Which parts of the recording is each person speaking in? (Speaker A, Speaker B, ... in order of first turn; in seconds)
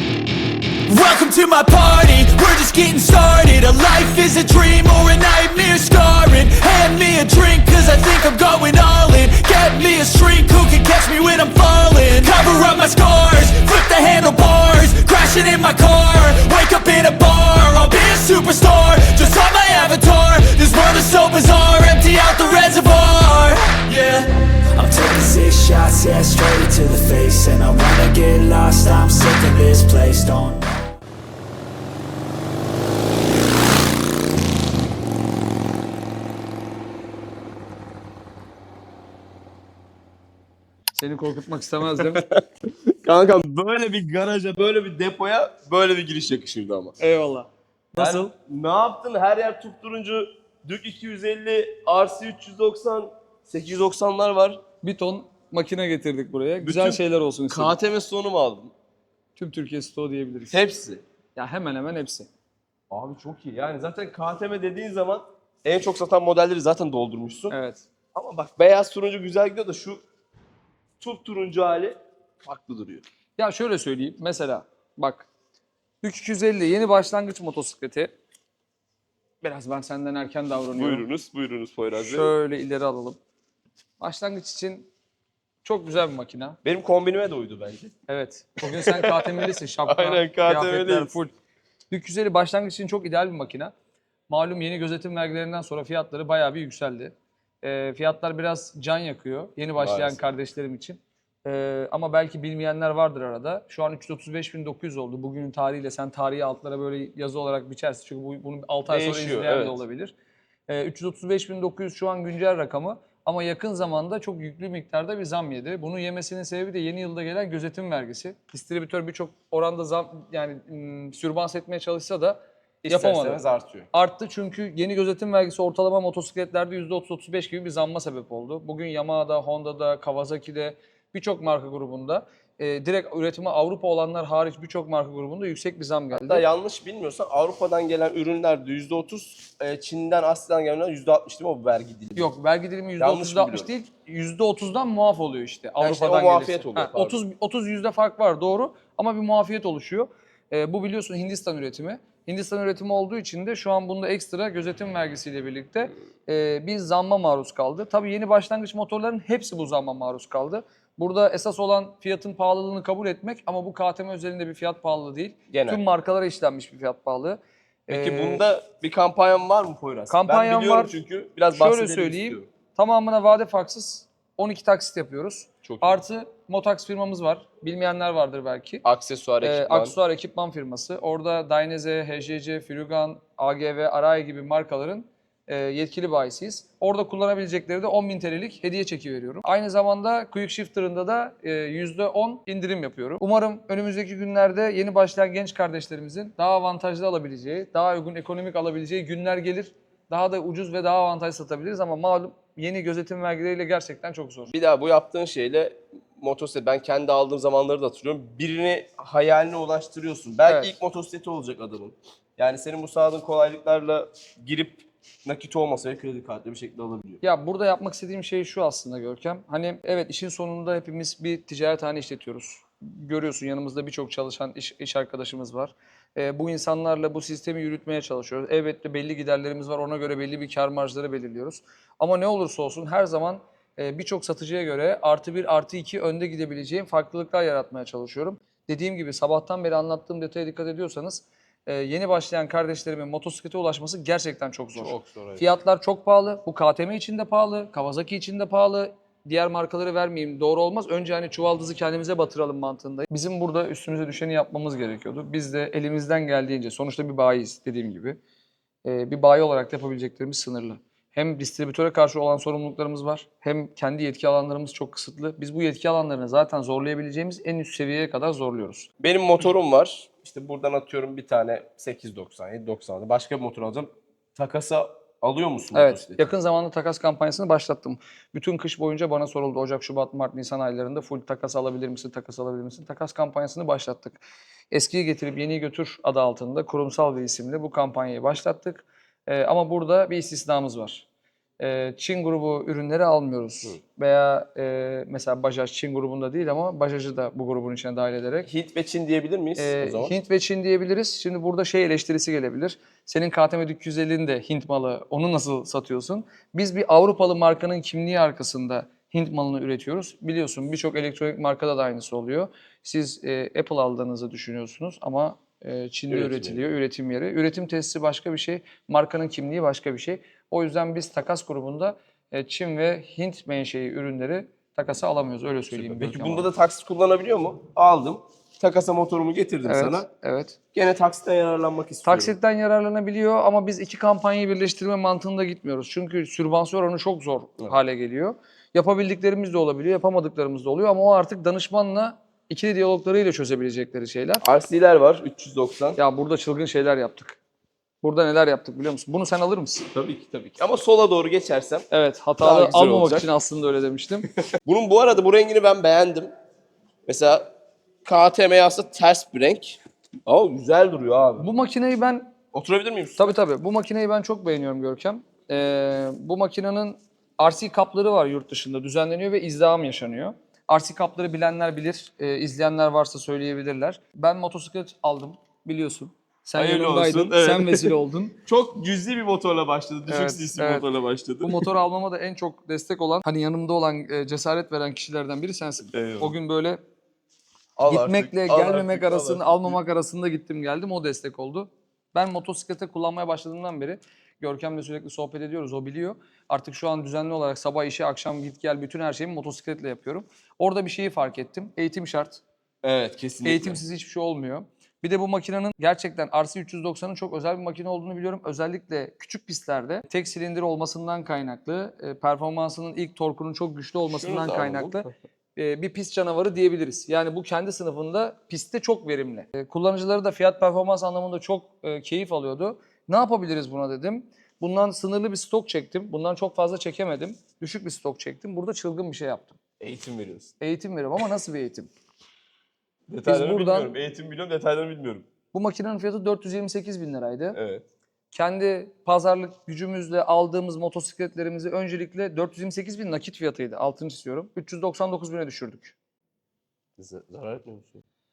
Speaker A: 0.9-30.7
Speaker B: 41.0-42.2, 47.0-48.3, 54.8-57.8, 59.4-60.6, 61.4-62.3, 67.5-67.8, 73.4-75.3, 76.0-78.1, 79.4-81.0, 82.0-83.2, 84.0-84.9, 85.6-86.6, 88.1-91.3, 91.9-93.7, 94.3-110.1, 110.7-123.4, 123.9-136.4, 142.2-168.4, 170.1-171.0, 171.5-178.8, 179.4-204.5, 210.5-210.8, 217.2-258.2, 258.8-268.9, 275.7-291.1, 291.6-298.5, 299.6-326.5, 329.7-330.6, 332.1-344.4, 346.0-347.4, 348.0-349.9, 351.9-354.3, 361.4-362.3, 363.2-378.4, 380.1-380.9, 381.4-386.8, 387.9-402.4, 403.4-429.6, 430.6-431.9, 433.3-433.9, 435.5-437.6, 438.3-445.9
Speaker C: 41.9-47.0, 48.0-54.6, 56.6-58.7, 60.5-61.0, 62.9-67.5, 68.2-70.0, 71.0-73.0, 80.8-82.3, 86.6-87.9, 88.6-91.1, 99.8-100.2, 108.9-109.8, 122.8-123.9, 136.1-142.3, 143.0-143.7, 145.8-147.2, 165.5-165.8, 167.9-172.5, 175.6-176.0, 178.8-179.9, 204.5-217.2, 244.8-245.4, 269.0-276.3, 298.5-300.2, 316.1-316.6, 325.7-330.1, 330.7-332.4, 344.4-346.0, 349.9-351.9, 352.4-353.3, 354.5-356.3, 357.1-357.5, 358.1-361.5, 362.5-363.3, 376.6-377.9, 378.4-381.7, 385.9-386.3, 387.8-389.8, 402.8-403.8, 414.1-415.1, 429.8-430.5, 433.1-435.3, 437.5-437.9, 447.0-448.0